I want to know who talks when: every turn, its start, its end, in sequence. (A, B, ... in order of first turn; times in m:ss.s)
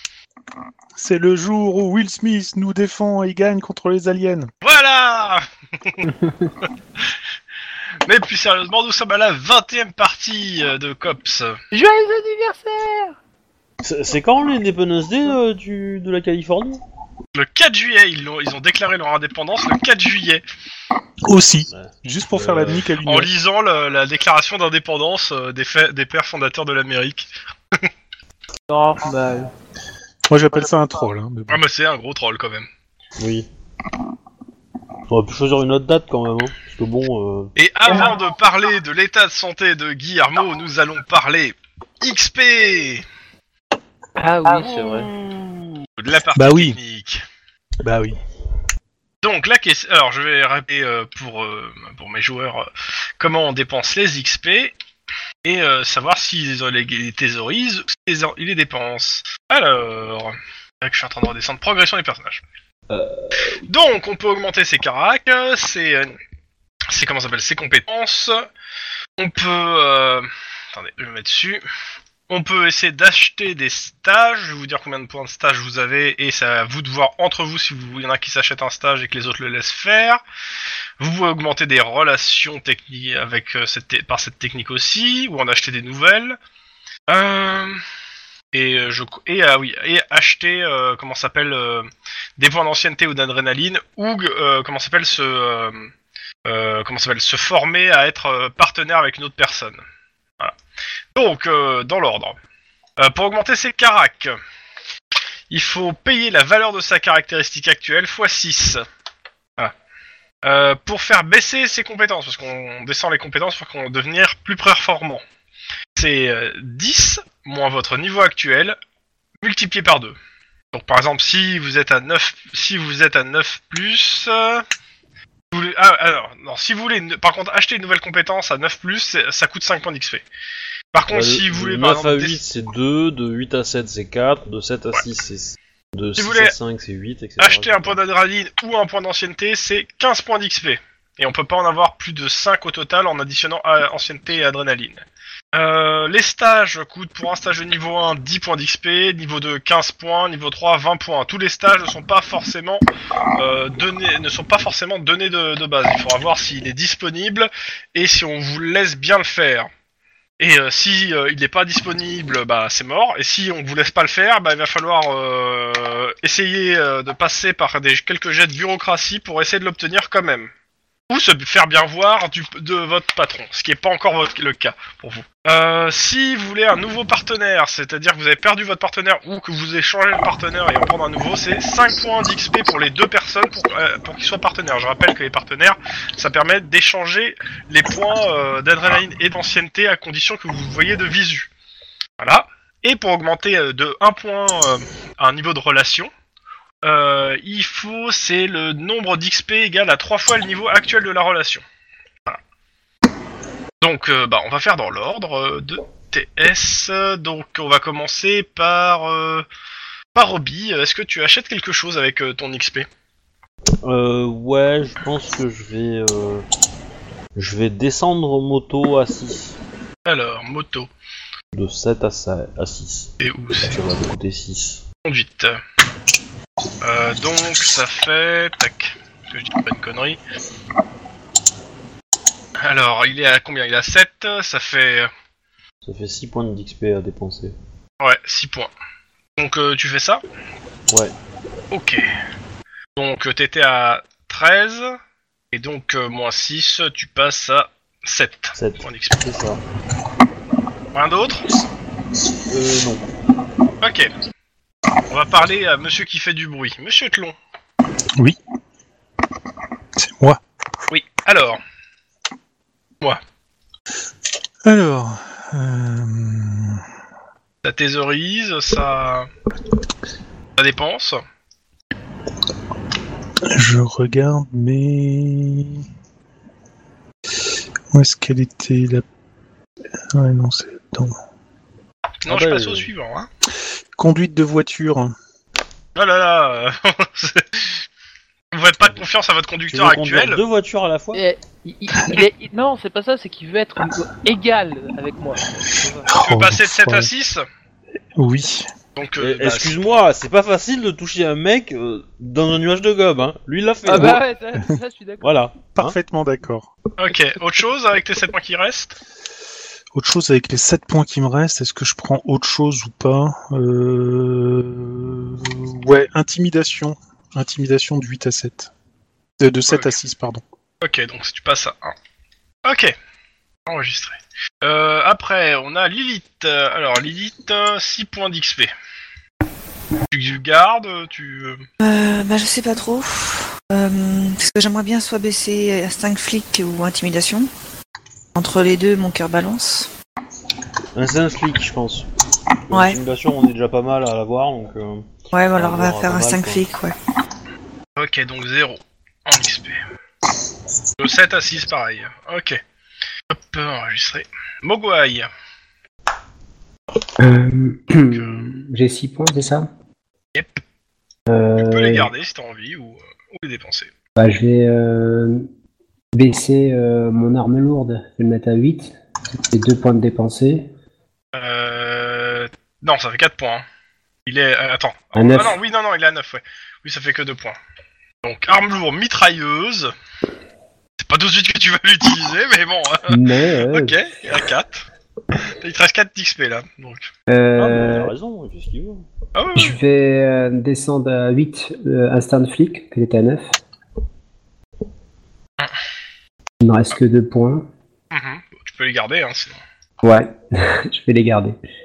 0:01.0-0:04.5 A
0:04.6-0:06.1 B
0:08.1-0:11.6 B
0:11.7-0:13.2 C
0:13.8-0:16.8 D
0:17.4-0:20.4 B
0:21.3-0:23.3 A
0:21.7-0:22.9 D
0:23.0-0:27.3 B
0:28.7-0:29.5 C
0:30.3-0:31.6 A
0:31.5-0:32.7 B
0:33.2-0:33.5 D
0:35.1-0:37.5 D
0:37.6-0:43.0 B
0:44.2-0:45.1 C
0:44.8-0:45.4 D
0:46.0-0:47.2 B
0:46.4-0:46.8 A
0:47.8-0:48.2 A
0:49.2-0:52.7 B
0:53.2-0:54.7 B
0:55.4-1:02.4 B
1:02.9-1:03.6 D
1:03.7-1:06.1 B
1:06.9-1:08.4 B
1:09.2-1:11.6 B
1:12.3-1:20.2 B
1:21.0-1:26.4 B
1:27.1-1:27.8 B
1:28.5-1:35.9 B
1:36.4-1:39.8 B
1:41.2-1:42.4 B
1:43.0-1:44.4 B
1:45.5-1:48.8 B
1:50.4-1:55.2 B
1:56.0-1:58.8 B
1:59.4-2:00.2 B
2:00.7-2:04.6 B
2:05.5-2:10.2 B
2:10.9-2:12.4 B
2:11.1-2:18.0 D
2:16.2-2:16.5 B
2:17.4-2:32.8 B
2:33.4-2:39.7 B
2:40.4-2:50.5 B
2:51.1-3:11.5 B
3:12.2-3:16.1 B
3:16.8-3:21.6 B
3:23.8-3:29.5 B
3:30.2-3:32.9 B
3:33.8-3:36.4 D
3:37.4-3:39.6 D
3:40.1-3:40.9 B
3:41.5-3:44.8 D
3:43.2-3:43.8 B
3:45.0-3:45.6 B
3:46.8-3:50.2 B
3:52.6-3:55.1 B
3:55.8-3:57.6 D
3:58.0-3:58.7 B
3:59.4-4:00.2 B
4:01.7-4:02.0 B
4:03.0-4:05.0 B
4:05.5-4:09.2 B
4:08.6-4:09.6 D
4:10.9-4:11.5 B
4:12.5-4:13.1 D
4:13.8-4:14.1 B
4:15.1-4:17.4 B
4:20.0-4:20.4 A
4:20.9-4:21.6 B
4:24.6-4:26.8 A
4:27.6-4:29.3 B
4:30.6-4:31.2 B
4:33.5-4:35.8 A
4:37.9-4:39.0 A
4:40.1-4:41.2 A
4:42.2-4:43.3 B
4:42.3-4:42.9 D
4:44.0-4:45.2 A
4:46.0-4:47.8 B
4:48.5-4:50.4 B
4:49.7-4:51.2 D
4:51.1-4:56.1 C
4:56.0-4:57.1 A
4:56.2-4:57.4 B
4:58.2-4:58.7 A
4:59.0-4:59.9 B
4:59.2-5:04.2 D
5:03.8-5:05.3 C
5:05.2-5:06.0 D
5:05.7-5:06.7 A
5:07.0-5:09.0 B
5:09.9-5:18.7 A
5:19.4-5:20.4 A
5:19.7-5:20.0 B
5:20.8-5:22.0 B
5:22.6-5:22.9 B
5:23.7-5:28.7 B
5:30.1-5:31.6 B
5:31.8-5:37.5 E
5:38.4-5:39.9 E
5:41.0-5:42.1 D
5:42.7-5:46.6 D
5:42.7-5:43.0 E
5:45.3-5:46.9 E
5:48.0-5:49.8 B
5:51.0-5:52.6 B
5:53.3-5:55.3 B
5:57.2-5:59.7 F
5:58.1-5:58.5 B
6:00.4-6:00.6 B
6:01.3-6:02.1 F
6:01.6-6:03.9 B
6:04.2-6:05.5 F
6:06.1-6:09.0 F
6:09.5-6:10.7 F
6:11.3-6:13.6 B
6:14.3-6:17.6 B
6:15.2-6:15.6 F
6:18.2-6:19.9 B
6:21.0-6:23.2 B
6:23.1-6:24.0 F
6:23.7-6:24.9 B
6:25.6-6:27.1 B
6:27.3-6:28.1 F
6:27.6-6:29.0 D
6:29.4-6:29.8 B
6:29.6-6:33.6 F
6:36.6-6:37.7 F
6:38.1-6:39.6 B
6:40.0-6:41.6 F